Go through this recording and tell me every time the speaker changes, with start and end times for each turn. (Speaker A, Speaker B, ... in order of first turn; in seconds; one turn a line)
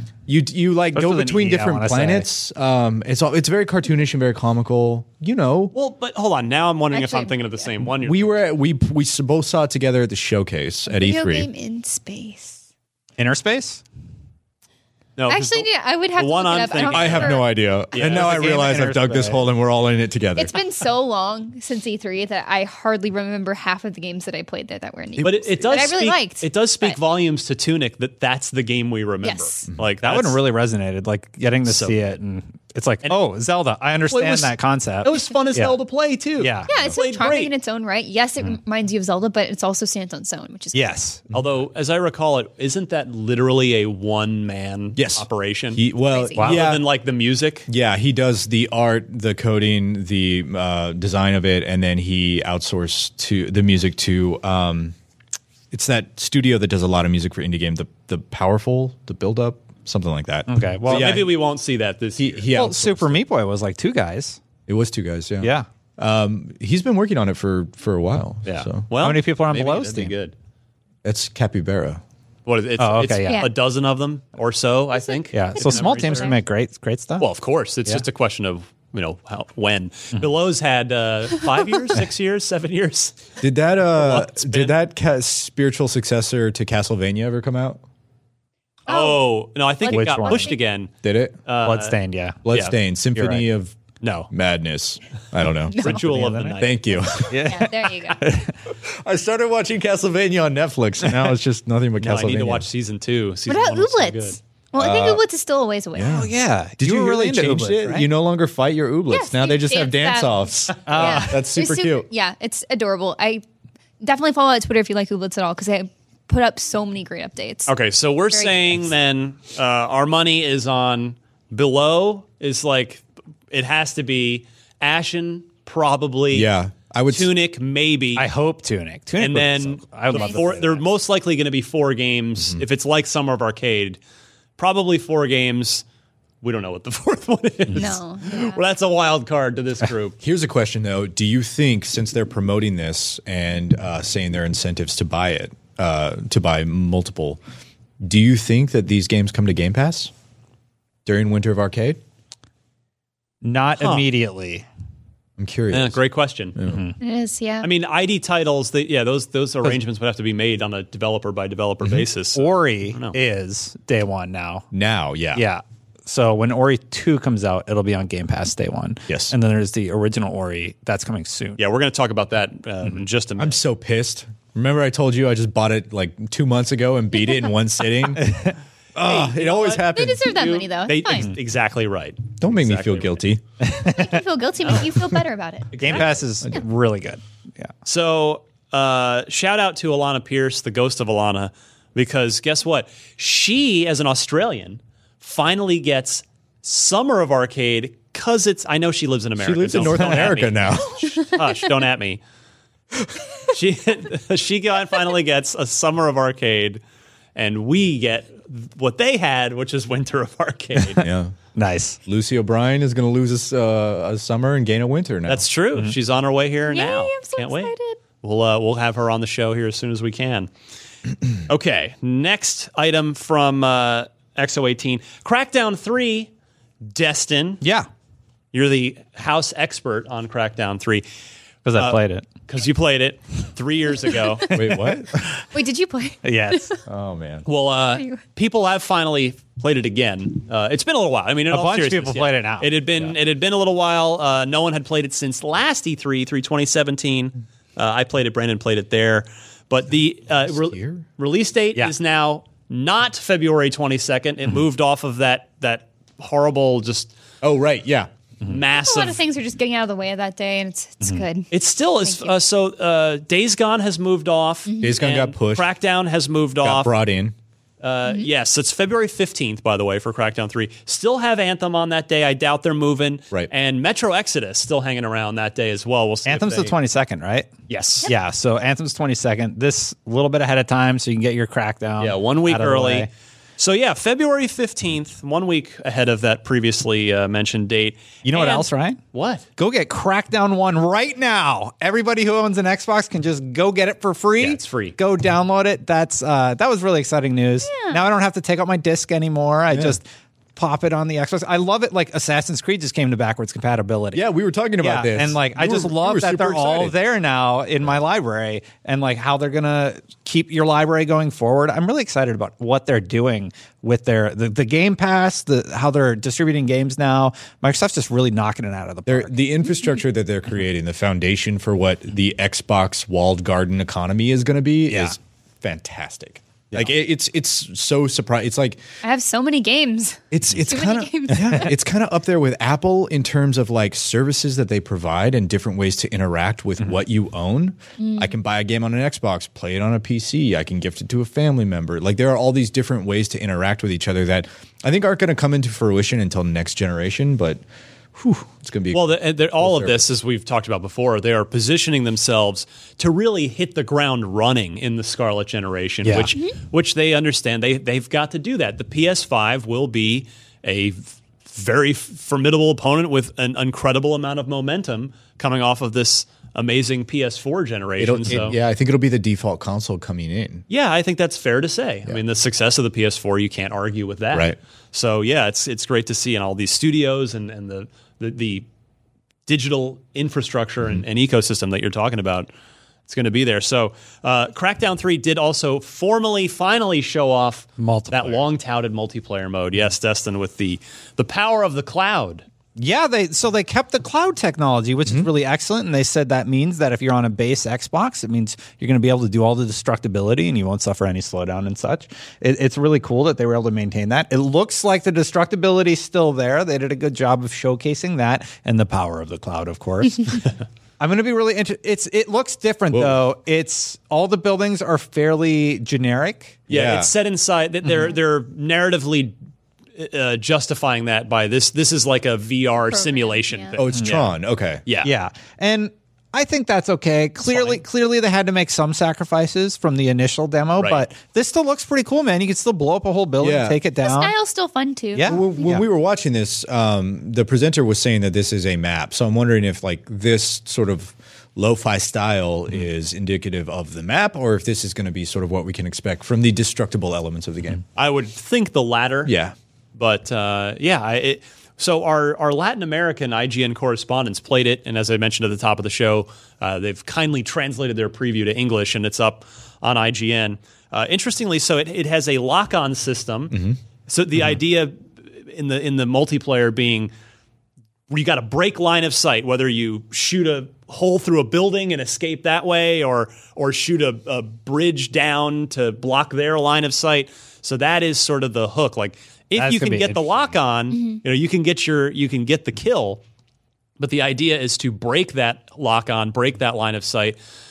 Speaker A: 0.3-5.7
Speaker B: 0.9-2.3
Speaker C: 5.7-8.4
Speaker D: 6.9-7.7
Speaker A: 8.0-11.5
Speaker D: 10.9-12.6
Speaker B: 13.2-13.8
Speaker C: 15.2-18.8
Speaker D: 15.3-17.5
Speaker A: 16.9-20.6
Speaker B: 18.0-19.4
Speaker D: 20.4-27.0
Speaker A: 25.2-25.5
Speaker C: 25.2-30.4
Speaker D: 29.2-29.6
Speaker B: 30.0-35.8
Speaker C: 31.6-32.1
Speaker C: 34.1-37.5
Speaker B: 36.4-36.7
Speaker D: 36.7-41.0
Speaker B: 40.7-41.2
Speaker C: 41.3-45.8
Speaker A: 45.0-46.8
Speaker D: 46.1-46.5
Speaker B: 46.4-46.6
Speaker C: 46.4-47.7
Speaker A: 47.7-54.9
Speaker A: 55.7-61.3
Speaker B: 60.5-61.2
Speaker C: 60.9-62.5
Speaker A: 62.2-63.2
Speaker B: 62.5-64.4
Speaker A: 64.7-68.9
Speaker B: 65.4-65.7
Speaker C: 68.5-70.3
Speaker B: 68.9-70.1
Speaker A: 71.0-72.0
Speaker C: 72.5-76.4
Speaker B: 72.8-73.5
Speaker D: 73.2-73.5
Speaker B: 75.3-77.3
Speaker D: 75.6-76.3
Speaker C: 77.2-83.2
Speaker A: 83.4-87.8
Speaker C: 83.9-84.7
Speaker C: 88.9-90.9
Speaker D: 88.9-89.2
Speaker D: 89.8-90.6
Speaker B: 89.9-90.5
Speaker A: 91.0-91.4
Speaker C: 91.5-92.0
Speaker B: 91.6-92.5
Speaker A: 92.5-93.8
Speaker C: 92.5-92.8
Speaker B: 93.1-93.5
Speaker C: 94.0-94.3
Speaker A: 94.3-96.0
Speaker D: 95.7-96.0
Speaker C: 95.8-96.8
Speaker B: 95.9-98.5
Speaker A: 96.6-97.7
Speaker D: 97.4-98.2
Speaker A: 98.7-102.7
Speaker C: 102.0-104.4
Speaker D: 103.5-106.3
Speaker A: 104.8-105.2
Speaker A: 105.9-112.1
Speaker B: 106.0-108.1
Speaker D: 109.1-113.4
Speaker B: 110.8-111.4
Speaker D: 114.0-117.7
Speaker C: 117.7-126.5
Speaker D: 118.3-118.8
Speaker A: 126.3-127.3
Speaker C: 127.1-128.3
Speaker B: 128.2-130.8
Speaker C: 129.2-134.0
Speaker D: 130.1-130.4
Speaker C: 134.6-135.8
Speaker C: 136.4-140.2
Speaker D: 137.7-138.6
Speaker A: 140.2-147.4
Speaker A: 148.0-150.1
Speaker A: 151.1-152.0
Speaker B: 153.4-154.7
Speaker C: 153.8-154.1
Speaker A: 155.4-156.0
Speaker C: 155.7-156.6
Speaker A: 156.6-156.9
Speaker B: 156.7-156.9
Speaker D: 157.0-157.7
Speaker C: 157.6-163.2
Speaker B: 162.3-164.7
Speaker A: 164.7-165.4
Speaker B: 165.3-171.6
Speaker A: 169.1-169.3
Speaker C: 171.6-173.6
Speaker A: 173.4-178.4
Speaker B: 178.2-178.5
Speaker A: 178.9-180.3
Speaker C: 179.0-183.2
Speaker D: 179.9-181.3
Speaker A: 182.4-183.4
Speaker B: 183.6-184.2
Speaker D: 183.8-185.7
Speaker C: 185.7-186.2
Speaker B: 185.8-187.7
Speaker C: 187.8-202.2
Speaker A: 199.4-201.1
Speaker B: 199.8-200.3
Speaker C: 203.5-206.8
Speaker C: 207.3-211.1
Speaker A: 211.0-211.3
Speaker B: 211.6-212.0
Speaker A: 212.1-215.4
Speaker C: 215.3-220.5
Speaker D: 216.6-218.0
Speaker C: 221.5-226.3
Speaker C: 226.9-227.6
Speaker B: 227.6-227.9
Speaker C: 228.5-231.0
Speaker B: 231.6-232.3
Speaker C: 231.8-234.6
Speaker B: 234.5-235.2
Speaker A: 234.5-235.3
Speaker D: 235.5-236.8
Speaker B: 236.2-236.8
Speaker A: 236.8-237.4
Speaker C: 237.4-257.1
Speaker B: 241.5-243.1
Speaker A: 250.4-251.0
Speaker A: 257.4-258.1
Speaker C: 258.4-259.2
Speaker D: 258.7-261.5
Speaker C: 261.5-266.9
Speaker D: 262.0-262.3
Speaker D: 264.7-265.0
Speaker A: 264.8-265.7
Speaker A: 266.6-267.3
Speaker C: 267.8-276.8
Speaker B: 276.2-277.5
Speaker C: 277.7-278.1
Speaker B: 278.0-283.1
Speaker C: 282.0-289.4
Speaker B: 288.2-289.0
Speaker B: 289.6-304.2
Speaker C: 294.4-294.9
Speaker D: 297.6-298.0
Speaker A: 299.7-299.9
Speaker A: 304.1-306.9
Speaker B: 304.8-319.3
Speaker A: 319.1-328.8
Speaker B: 324.9-325.1
Speaker D: 329.0-331.7
Speaker A: 330.3-347.6
Speaker D: 338.0-338.3
Speaker A: 348.1-350.0
Speaker C: 348.9-368.6
Speaker B: 356.0-356.3
Speaker A: 368.0-370.6
Speaker C: 370.7-378.6
Speaker C: 379.5-382.5
Speaker C: 383.1-392.4
Speaker B: 387.8-388.4
Speaker B: 392.8-416.6
Speaker A: 412.9-413.2
Speaker C: 416.7-419.3
Speaker A: 416.7-417.1
Speaker C: 419.9-424.3
Speaker D: 422.9-423.7
Speaker A: 423.8-424.8
Speaker C: 424.9-425.1
Speaker B: 425.0-434.3
Speaker C: 427.5-427.8
Speaker C: 430.8-431.0
Speaker A: 433.4-433.8
Speaker D: 434.0-435.5
Speaker B: 435.1-435.8
Speaker A: 435.2-447.8
Speaker C: 447.9-449.3
Speaker A: 449.2-449.5
Speaker C: 449.9-463.6
Speaker A: 463.5-463.8
Speaker C: 464.1-467.1
Speaker C: 468.1-483.2
Speaker B: 479.5-480.5
Speaker D: 480.9-481.2
Speaker C: 484.0-487.4